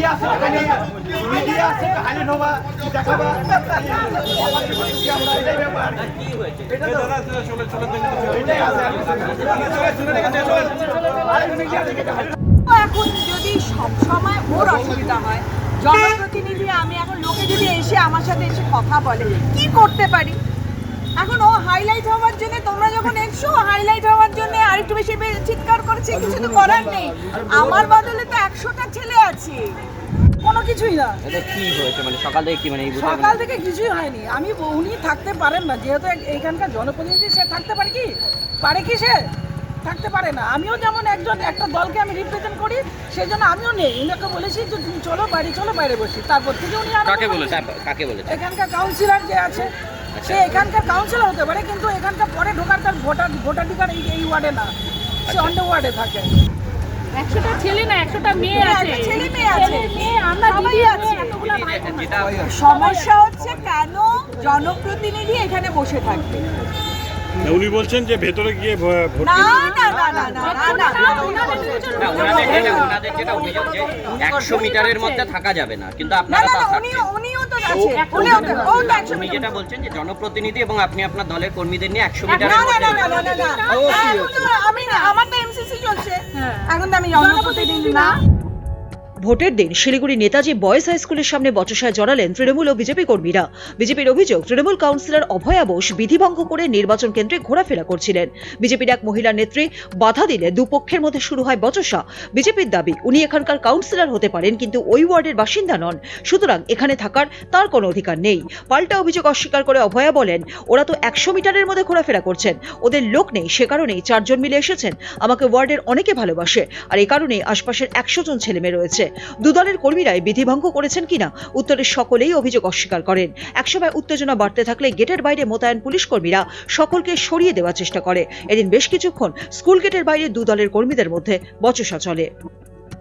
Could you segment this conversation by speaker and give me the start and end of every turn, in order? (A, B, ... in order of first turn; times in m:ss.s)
0:01.2-0:01.7 A
0:12.6-0:20.4 A
0:21.2-0:29.7 A
0:30.4-0:31.2 B
0:31.2-0:33.4 C
0:32.9-0:38.1 B
0:38.6-0:39.2 B
0:39.8-0:47.6 B
0:47.0-0:48.4 C
0:48.3-0:49.7 B
0:50.1-0:50.6 C
0:50.2-0:54.7 B
0:55.2-0:55.5 C
0:55.3-0:56.3 B
0:57.2-1:02.9 D
0:58.3-0:59.8 B
0:58.4-1:01.3 A
1:01.4-1:02.5 C
1:02.3-1:06.4 A
1:07.4-1:09.7 E
1:09.2-1:14.7 A
1:10.3-1:12.1 D
1:10.4-1:12.7 B
1:12.0-1:17.1 C
1:14.8-1:15.1 D
1:16.3-1:19.4 A
1:18.0-1:18.9 D
1:18.2-1:23.3 C
1:22.3-1:28.2 A
1:22.6-1:24.2 D
1:29.2-2:12.3 F